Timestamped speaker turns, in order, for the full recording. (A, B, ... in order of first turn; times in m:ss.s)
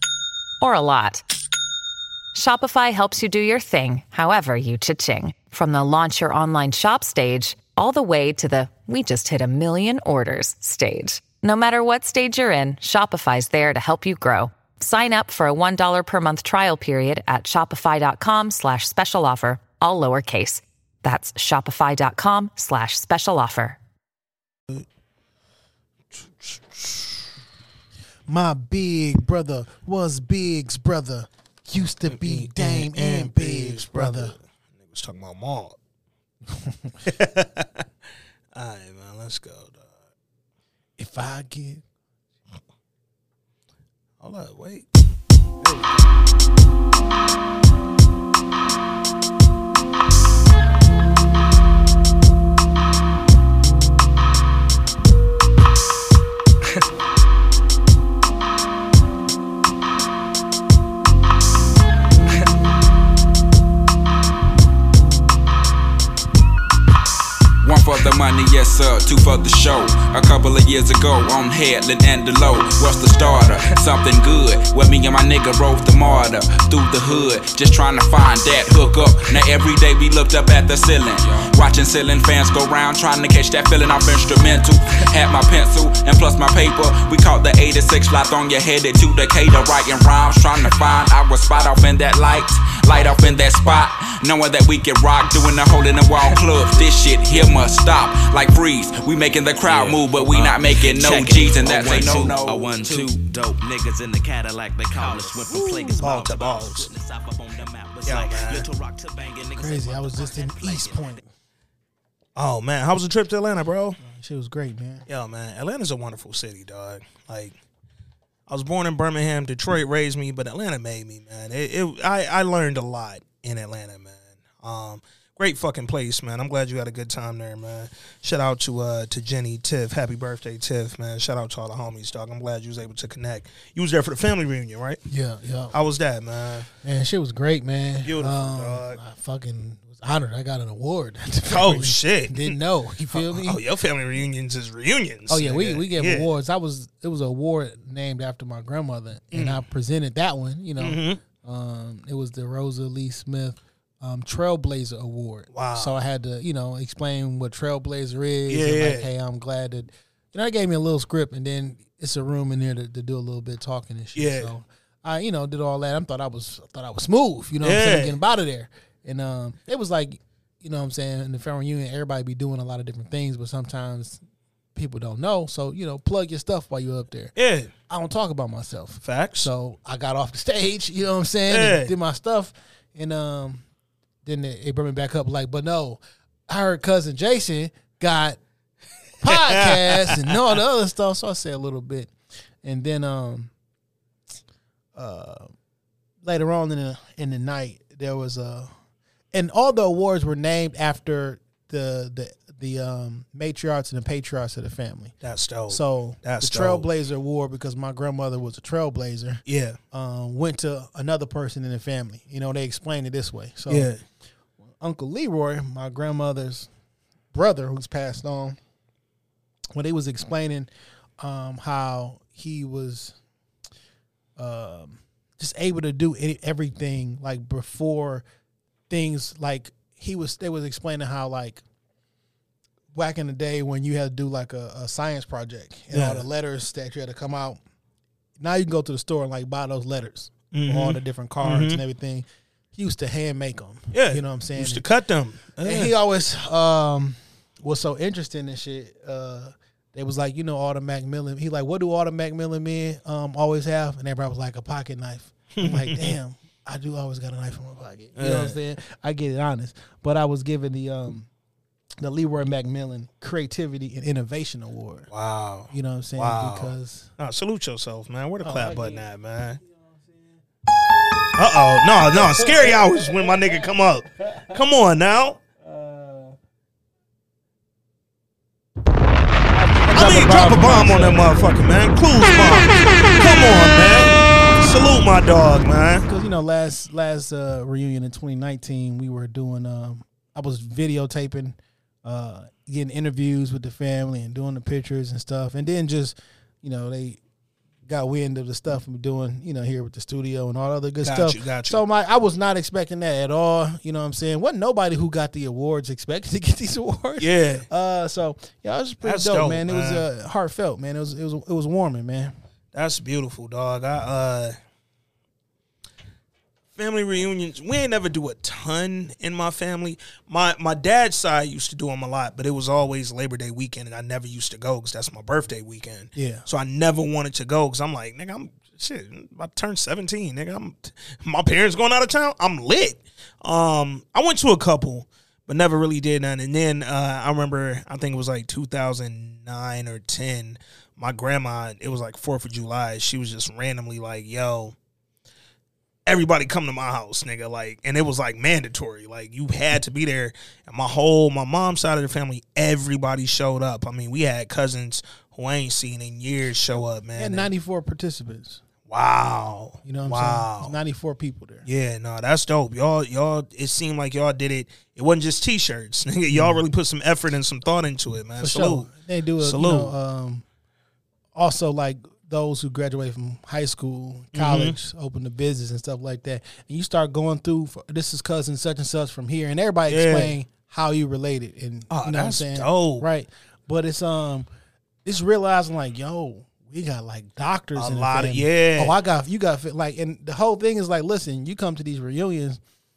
0:00.6-0:01.2 A
0:02.3-0:23.8 A
0:26.4-0:27.1 B
0:28.3-0:34.4 C
0:32.1-0:35.8 B
0:36.5-0:37.0 C
0:37.1-0:37.8 B
0:38.6-0:39.9 B
0:41.0-0:41.8 C
0:44.2-0:44.9 B
1:07.6-1:43.2 D
1:39.6-1:51.2 E
1:45.5-1:46.9 B
1:48.1-1:48.7 B
1:49.6-1:51.2 C
1:52.4-1:54.0 B
1:54.0-1:55.1 C
1:55.1-1:57.6 B
1:58.5-2:15.0 B
2:15.1-2:15.8 C
2:15.7-2:16.7 B
2:16.8-2:23.6 C
2:18.0-2:19.0 B
2:21.5-2:22.6 B
2:23.1-2:26.3 B
2:25.3-2:54.2 C
2:29.3-2:29.6 B
2:30.8-2:31.2 B
2:35.5-2:35.9 B
2:38.5-2:39.1 B
2:44.2-2:44.5 B
2:47.6-2:48.2 B
2:54.8-2:57.3 C
2:57.4-2:57.7 B
2:57.9-3:03.6 C
2:59.0-2:59.5 B
3:01.5-3:01.9 B
3:04.2-3:08.4 C
3:09.2-3:12.1 C
3:09.2-3:10.4 B
3:12.6-3:13.5 C
3:15.0-3:15.5 C
3:16.2-3:18.7 C
3:19.3-3:25.1 C
3:25.2-3:26.8 B
3:25.7-3:33.9 C
3:29.5-3:29.8 B
3:33.7-3:34.0 B
3:34.7-3:36.7 C
3:37.3-3:38.6 C
3:39.7-3:40.7 C
3:41.2-3:43.2 C
3:44.4-3:48.2 C
3:48.9-3:51.6 C
3:52.9-3:57.6 C
3:55.9-3:56.2 B
3:58.4-4:04.8 C
4:00.5-4:01.8 B
4:03.9-4:05.9 B
4:05.6-4:21.3 C
4:15.6-4:16.2 B
4:18.2-4:18.6 B
4:22.0-4:25.1 C
4:25.1-4:29.6 B
4:25.7-4:27.1 C
4:28.4-4:29.0 C
4:29.6-4:30.4 C
4:31.4-4:35.4 B
4:32.0-4:34.6 C
4:35.6-4:36.4 C
4:39.5-4:41.6 C
4:39.9-4:46.1 B
4:46.0-4:57.2 C
4:57.9-5:12.3 C
5:01.0-5:01.8 B
5:07.2-5:07.7 B
5:09.0-5:10.0 B
5:12.7-5:14.5 B
5:16.8-5:44.8 B
5:26.2-5:26.4 C
5:46.1-5:57.5 B
5:57.2-5:58.6 C
5:58.9-6:00.7 B
5:59.8-6:01.6 C
6:01.6-6:09.9 B
6:06.3-6:06.6 C
6:08.4-6:10.4 C
6:11.3-6:24.5 C
6:14.3-6:14.8 B
6:19.9-6:20.3 B
6:21.9-6:23.1 B
6:25.0-6:32.6 C
6:27.8-6:29.0 B